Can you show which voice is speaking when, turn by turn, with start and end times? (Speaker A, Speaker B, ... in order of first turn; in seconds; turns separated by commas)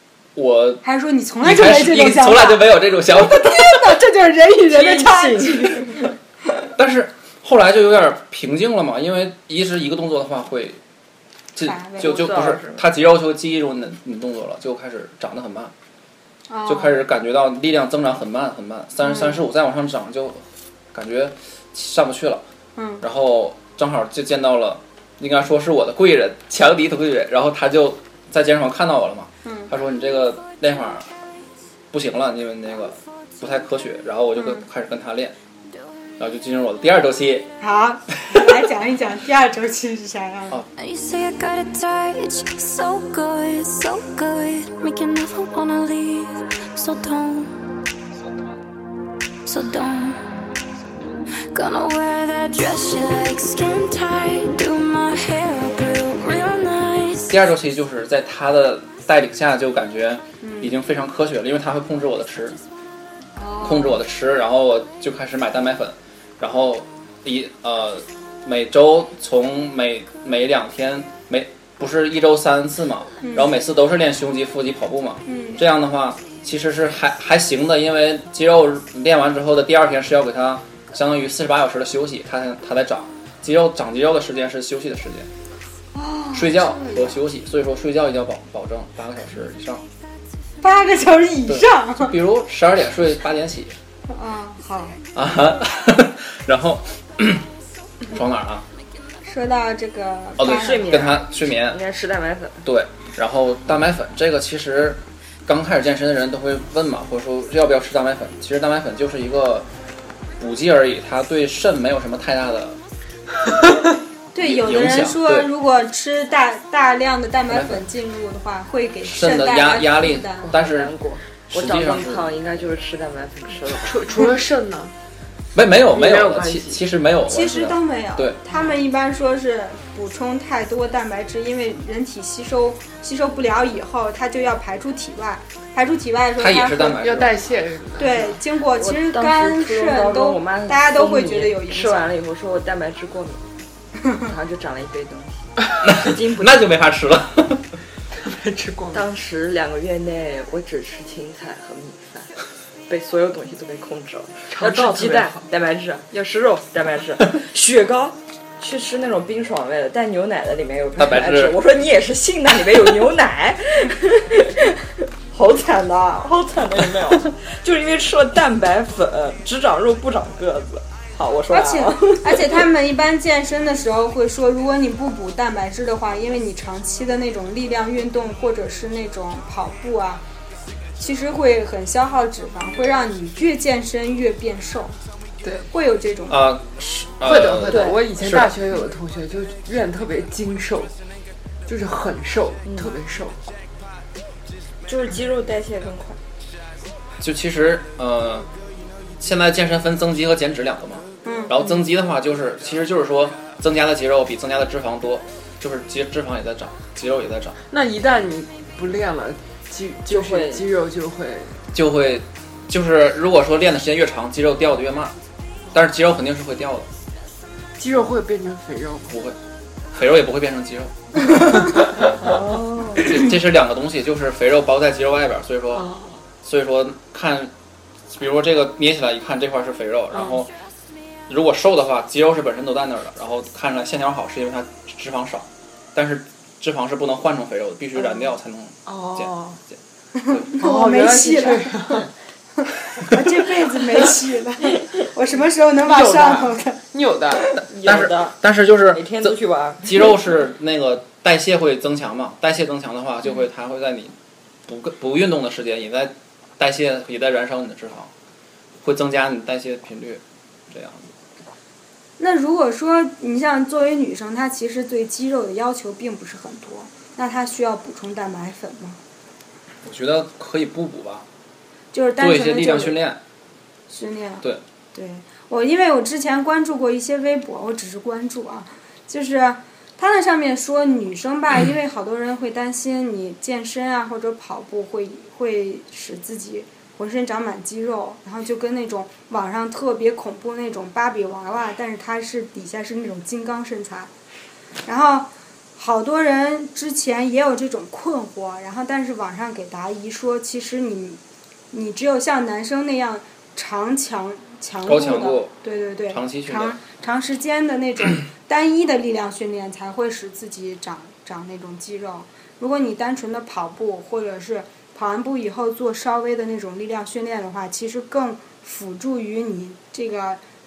Speaker A: 0.3-0.8, Speaker B: 0.8-6.0, Speaker A: 1.4-4.0, Speaker C: 4.7-6.1, Speaker A: 6.7-10.8, Speaker A: 11.6-15.7, Speaker B: 11.6-12.1, Speaker C: 12.0-12.8, Speaker B: 16.5-17.0, Speaker A: 16.7-22.4, Speaker B: 19.0-19.4, Speaker B: 22.8-23.0, Speaker A: 23.0-31.1, Speaker B: 29.4-29.7, Speaker A: 31.9-35.3, Speaker B: 34.4-34.6, Speaker A: 36.2-37.5, Speaker B: 37.6-40.6, Speaker D: 40.8-47.5, Speaker D: 49.5-50.2, Speaker D: 51.5-57.4, Speaker A: 57.3-62.6, Speaker B: 60.4-60.7, Speaker B: 63.4-64.0, Speaker A: 63.6-85.3, Speaker B: 73.2-73.5, Speaker B: 75.3-75.6, Speaker B: 85.9-86.7, Speaker A: 86.3-89.8, Speaker B: 90.6-92.1, Speaker A: 91.5-93.8, Speaker B: 94.1-95.0, Speaker A: 95.1-97.4, Speaker A: 98.1-98.7, Speaker B: 99.2-101.1, Speaker A: 100.4-101.8, Speaker C: 100.4-102.6, Speaker A: 102.6-109.7, Speaker A: 110.4-112.8, Speaker B: 114.3-120.5, Speaker A: 114.4-115.5, Speaker A: 117.5-117.8, Speaker A: 119.0-120.9, Speaker C: 120.5-124.2, Speaker A: 121.5-122.3, Speaker E: 123.8-124.9, Speaker A: 125.5-128.4, Speaker E: 125.9-126.8, Speaker B: 127.3-137.0, Speaker A: 136.4-137.4, Speaker E: 137.0-138.4, Speaker B: 138.0-142.1, Speaker C: 138.8-143.4, Speaker C: 144.2-146.6, Speaker A: 145.8-147.6, Speaker E: 148.1-149.1, Speaker C: 148.9-152.3, Speaker C: 152.9-172.6, Speaker E: 154.5-155.5, Speaker A: 161.0-161.6, Speaker B: 171.5-180.2, Speaker B: 181.0-184.9, Speaker E: 185.4-185.7, Speaker B: 185.7-186.4, Speaker A: 186.3-188.5, Speaker E: 187.2-190.9, Speaker C: 187.7-188.0, Speaker E: 191.7-193.5, Speaker C: 192.6-192.9, Speaker C: 194.9-196.2, Speaker A: 197.2-198.5, Speaker A: 199.2-207.6, Speaker B: 201.3-201.5, Speaker C: 201.3-201.8, Speaker E: 207.7-211.6, Speaker C: 210.1-210.6, Speaker A: 211.7-215.1, Speaker A: 215.7-216.9, Speaker E: 217.8-219.2, Speaker A: 219.1-219.4, Speaker A: 219.9-222.3, Speaker C: 222.3-223.1, Speaker A: 223.0-225.9, Speaker E: 225.7-226.2, Speaker A: 226.4-227.5, Speaker A: 228.1-230.5, Speaker E: 230.1-230.4, Speaker A: 231.3-239.7, Speaker E: 238.9-239.6, Speaker B: 240.2-242.0, Speaker E: 240.6-242.1, Speaker B: 243.0-246.8, Speaker E: 245.8-247.5, Speaker C: 247.7-248.4, Speaker A: 247.8-254.1, Speaker C: 248.9-250.2, Speaker A: 254.7-258.1, Speaker A: 258.8-261.1, Speaker B: 262.2-269.0, Speaker A: 269.8-271.2, Speaker B: 271.9-273.0, Speaker A: 272.2-273.2, Speaker B: 273.9-294.1, Speaker B: 294.9-301.2, Speaker B: 301.7-320.4, Speaker A: 304.9-305.5, Speaker A: 306.1-306.8